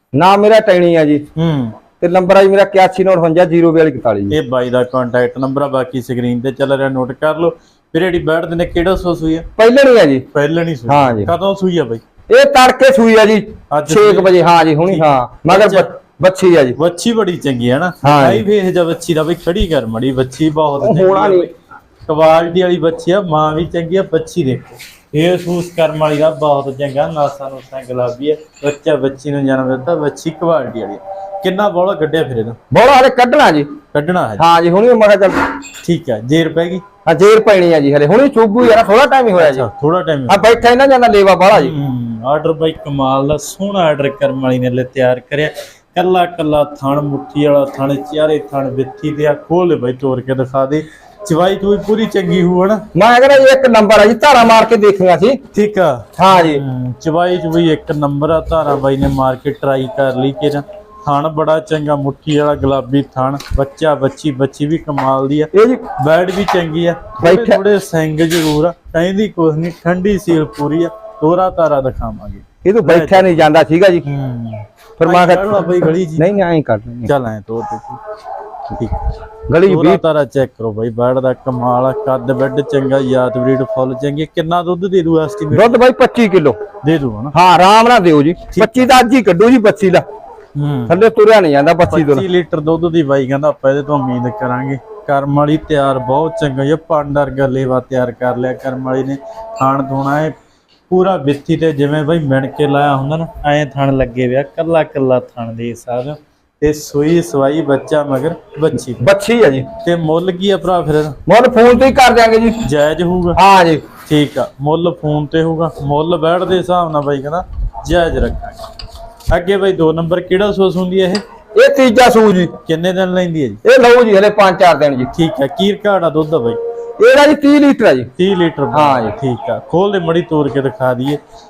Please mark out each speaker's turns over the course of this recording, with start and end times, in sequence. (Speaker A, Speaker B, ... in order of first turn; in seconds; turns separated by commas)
Speaker A: 0.1-1.2, Speaker B: 1.4-1.8, Speaker A: 2.0-4.3, Speaker B: 4.3-9.4, Speaker A: 9.6-10.2, Speaker B: 10.3-12.0, Speaker A: 10.9-11.3, Speaker A: 12.3-16.8, Speaker B: 13.7-15.9, Speaker B: 16.8-21.5, Speaker A: 18.0-18.4, Speaker A: 20.8-21.5, Speaker B: 22.1-32.6, Speaker A: 32.7-33.7, Speaker B: 33.9-34.5, Speaker A: 34.4-35.4, Speaker B: 35.8-36.8, Speaker A: 37.0-39.7, Speaker B: 39.4-40.6, Speaker A: 40.3-41.7, Speaker B: 41.5-52.9, Speaker A: 52.9-55.4, Speaker B: 55.5-73.5, Speaker A: 56.2-56.6, Speaker A: 65.5-65.8, Speaker A: 67.2-67.6, Speaker A: 72.6-74.0, Speaker B: 74.0-76.4, Speaker A: 75.0-77.1, Speaker B: 77.0-78.0, Speaker B: 78.7-79.0, Speaker A: 79.5-80.0, Speaker B: 79.6-85.8, Speaker A: 85.5-86.6, Speaker B: 86.8-87.3, Speaker A: 87.3-90.0, Speaker B: 88.5-88.9, Speaker B: 90.5-91.0, Speaker A: 90.9-92.2, Speaker B: 91.9-100.3, Speaker B: 100.9-109.0, Speaker A: 109.0-109.7, Speaker B: 109.8-111.2, Speaker A: 111.3-112.6, Speaker B: 112.6-113.4, Speaker A: 113.3-113.8, Speaker B: 114.0-118.6, Speaker B: 119.3-121.2, Speaker A: 121.5-122.5, Speaker B: 122.7-123.6, Speaker A: 123.6-125.1, Speaker B: 125.1-126.6, Speaker A: 127.0-128.1, Speaker B: 128.2-131.2, Speaker A: 128.7-129.1